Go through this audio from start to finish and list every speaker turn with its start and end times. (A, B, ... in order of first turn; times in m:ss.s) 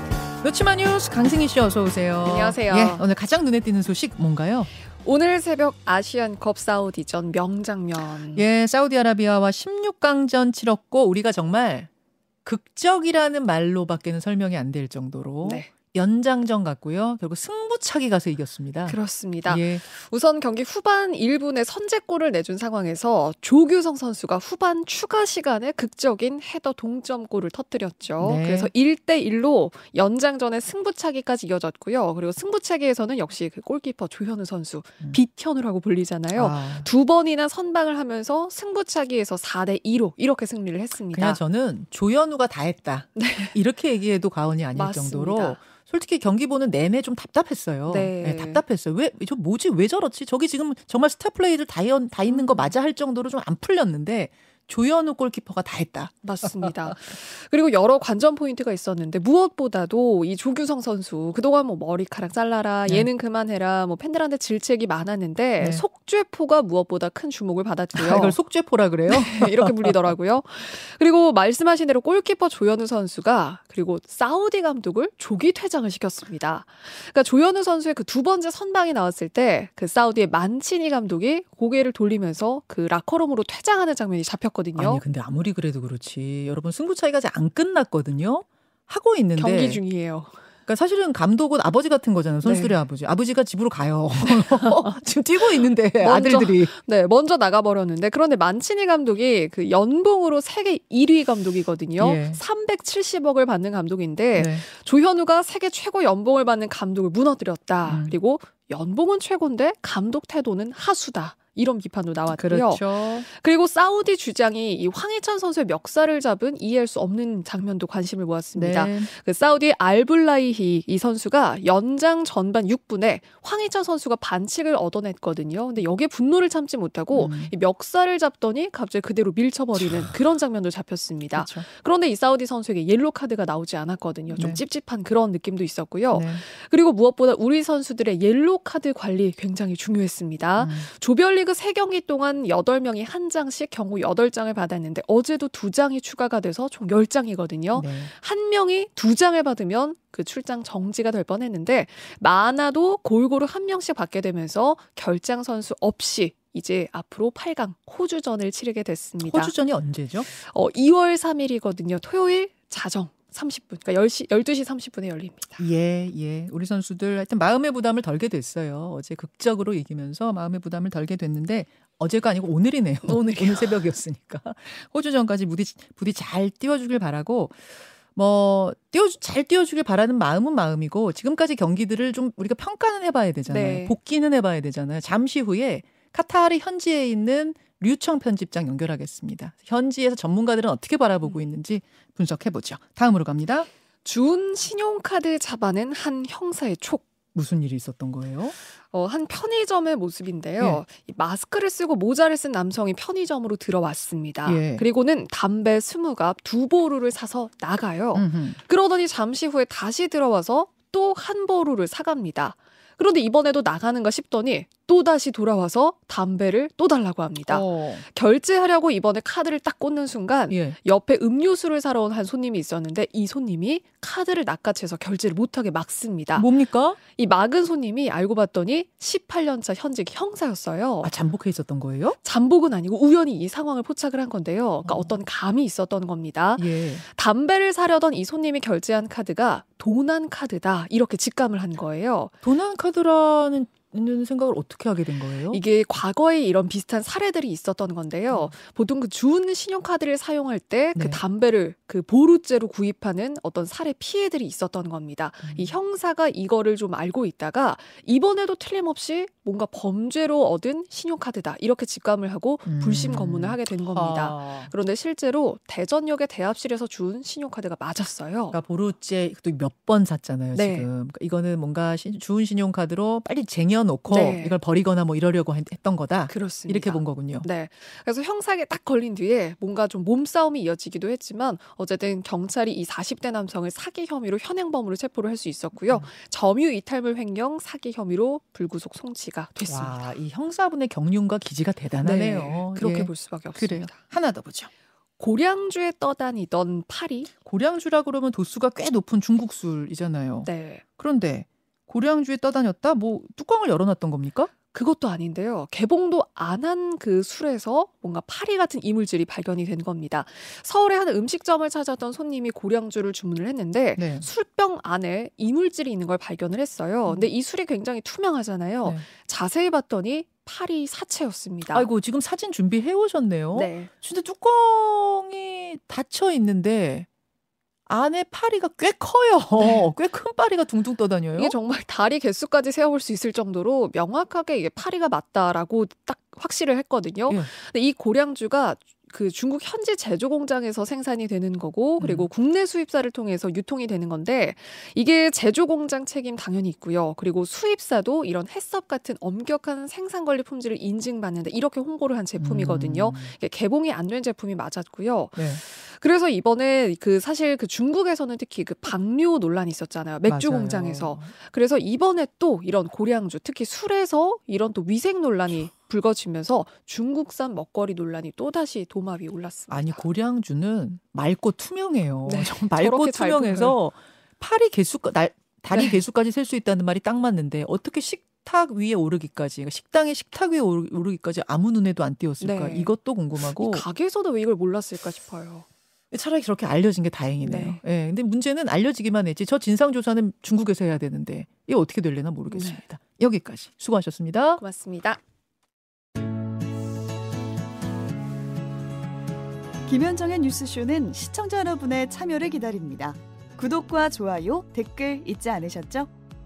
0:00.4-0:04.7 A
0:02.2-0:03.1 B
0:04.9-0:08.4 B
0:08.3-0:11.9 A
0:12.4-0:19.8 A
0:15.4-0:15.7 B
0:18.9-0:41.4 B
0:28.2-0:28.7 A
0:36.3-0:36.9 A
0:41.1-0:56.9 A
0:43.2-0:43.6 B
0:44.8-0:45.6 B
0:47.9-0:48.6 B
0:52.3-0:52.7 B
0:56.2-1:08.4 B
1:05.6-1:05.8 A
1:08.0-1:10.1 A
1:09.1-1:25.0 B
1:24.8-1:29.8 A
1:29.4-1:30.4 B
1:30.7-1:36.7 A
1:32.4-1:32.8 B
1:34.3-1:34.9 B
1:36.0-2:39.6 B
1:42.0-1:42.4 A
1:44.4-1:44.6 A
1:47.9-1:48.1 A
1:52.3-1:53.3 A
1:58.6-1:59.1 A
2:07.1-2:07.5 A
2:11.3-2:11.7 A
2:14.3-2:14.6 A
2:16.1-2:16.4 A
2:20.6-2:20.9 A
2:27.7-2:28.1 A
2:39.2-2:40.3 A
2:40.2-2:45.6 B
2:45.6-3:13.7 A
2:53.1-2:53.8 B
3:03.5-3:04.0 B
3:14.0-3:17.1 B
3:17.4-3:18.6 A
3:18.7-3:51.1 B
3:24.4-3:24.8 A
3:28.2-3:28.6 A
3:37.5-3:38.0 A
3:40.5-3:40.8 A
3:46.4-3:47.0 A
3:51.0-3:52.2 A
3:52.2-4:02.3 B
3:54.8-3:55.2 A
3:56.6-3:57.0 A
4:02.4-4:05.6 A
4:05.5-4:28.6 B
4:11.0-4:11.2 A
4:15.4-4:15.7 A
4:22.7-4:24.7 A
4:28.5-4:37.5 A
4:30.6-4:30.9 B
4:34.1-4:34.6 B
4:36.3-4:50.1 B
4:49.7-4:54.7 A
4:52.0-4:54.0 B
4:55.2-4:57.3 B
4:57.4-5:04.5 A
5:00.4-5:00.8 B
5:04.7-5:21.9 B
5:14.0-5:14.3 A
5:21.7-5:27.1 A
5:23.5-5:23.9 B
5:27.9-5:31.5 A
5:31.4-6:10.0 B
5:42.0-5:42.3 A
5:52.4-5:53.3 A
5:55.4-5:55.6 A
6:00.3-6:01.3 A
6:09.7-6:23.8 A
6:12.3-6:13.8 B
6:15.7-6:16.0 B
6:22.4-6:25.7 B
6:26.1-6:34.6 A
6:27.4-6:27.8 B
6:32.5-6:32.8 B
6:34.6-6:35.2 B
6:39.9-6:46.1 C